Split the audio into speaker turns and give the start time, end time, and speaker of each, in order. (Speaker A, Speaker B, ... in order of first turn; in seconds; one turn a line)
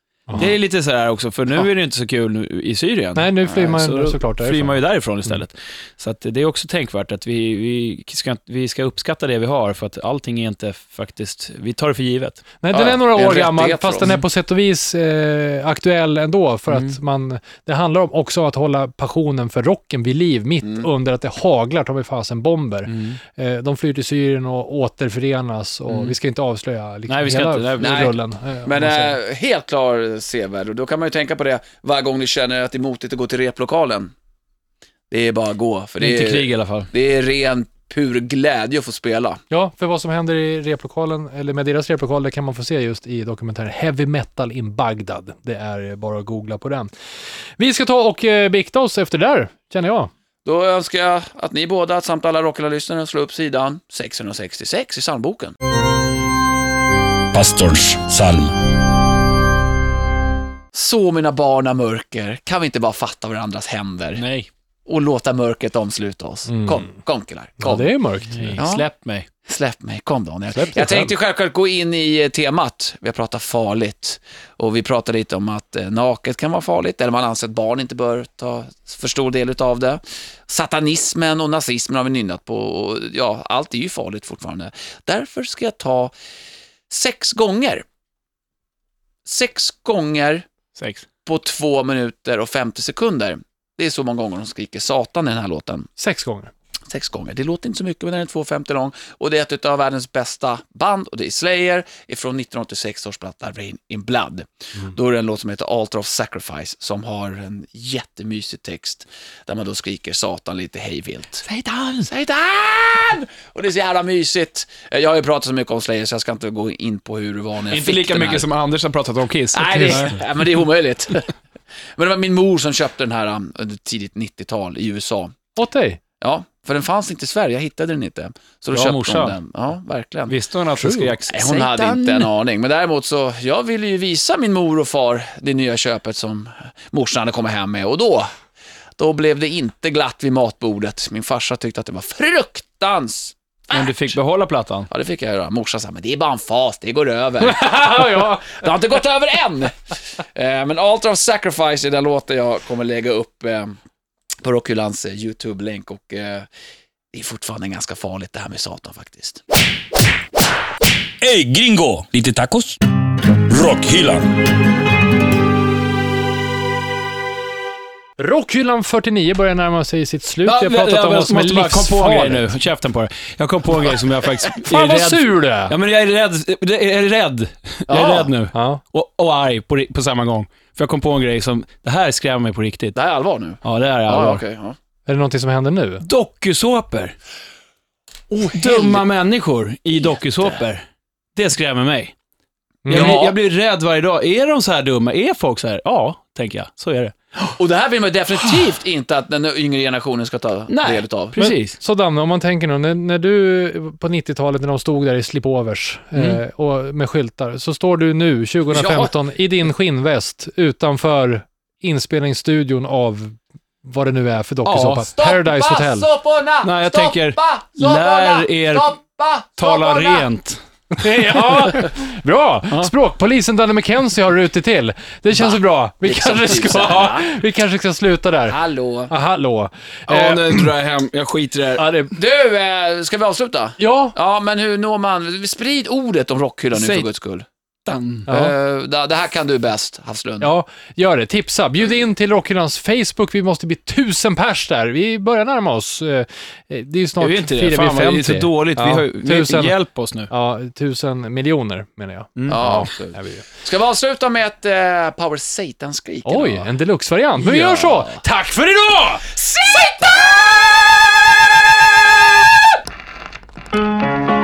Speaker A: 0.3-12.4
Speaker B: 3.1-4.8
Speaker B: 12.6-29.1
Speaker C: 12.7-14.1
Speaker A: 16.7-16.9
Speaker A: 22.9-23.2
Speaker A: 27.1-28.1
Speaker C: 27.8-34.1
Speaker C: 35.1-39.4
Speaker A: 36.0-36.9
Speaker B: 39.5-46.9
Speaker B: 47.6-50.1
Speaker C: 50.4-55.5
Speaker D: 57.3-58.5
Speaker C: 60.7-64.2
Speaker A: 64.2-64.5
Speaker C: 64.9-67.9
Speaker B: 66.5-66.9
Speaker B: 67.6-68.6
Speaker A: 68.3-69.3
Speaker C: 68.6-68.8
Speaker C: 69.5-86.1
Speaker B: 70.6-71.1
Speaker C: 86.9-87.8
Speaker C: 89.2-90.5
Speaker A: 90.8-91.1
Speaker C: 91.2-95.9
Speaker B: 96.0-96.5
Speaker C: 96.9-111.4
Speaker A: 111.4-112.1
Speaker C: 112.0-118.5
Speaker A: 117.7-120.2
Speaker C: 119.5-121.3
Speaker B: 119.6-120.1
Speaker C: 122.0-125.3
Speaker B: 125.5-126.0
Speaker C: 126.2-130.4
Speaker A: 128.7-129.4
Speaker A: 130.3-132.3
Speaker C: 131.2-138.3
Speaker C: 139.0-144.1
Speaker A: 143.7-144.9
Speaker C: 144.9-153.8
Speaker B: 147.4-148.6
Speaker C: 154.4-156.5
Speaker C: 157.1-159.4
Speaker D: 161.2-162.8
Speaker D: 163.4-164.3
Speaker B: 168.2-172.5
Speaker A: 170.4-182.9
Speaker B: 174.6-175.7
Speaker C: 177.9-178.3
Speaker B: 178.5-178.8
Speaker C: 182.9-184.8
Speaker A: 183.6-184.4
Speaker B: 185.1-186.0
Speaker A: 186.0-187.2
Speaker C: 188.3-189.0
Speaker A: 188.5-192.1
Speaker C: 190.1-190.6
Speaker B: 192.8-193.2
Speaker C: 192.9-193.3
Speaker A: 192.9-197.6
Speaker C: 197.6-201.5
Speaker A: 200.7-201.8
Speaker B: 201.4-216.1
Speaker C: 208.7-209.1
Speaker A: 214.6-215.1
Speaker C: 215.1-220.3
Speaker A: 216.6-218.9
Speaker A: 219.6-220.6
Speaker B: 220.9-228.6
Speaker C: 225.3-227.3
Speaker C: 228.5-229.1
Speaker B: 229.1-230.7
Speaker A: 230.1-231.9
Speaker B: 231.8-232.1
Speaker C: 232.1-237.4
Speaker B: 233.8-234.1
Speaker A: 236.7-237.1
Speaker A: 237.8-238.3
Speaker B: 238.3-238.5
Speaker C: 238.3-240.5
Speaker B: 240.4-249.8
Speaker A: 247.2-250.3
Speaker B: 250.3-253.4
Speaker A: 252.4-252.6
Speaker C: 252.5-256.7
Speaker B: 256.2-259.3
Speaker C: 257.4-258.2
Speaker C: 259.4-260.6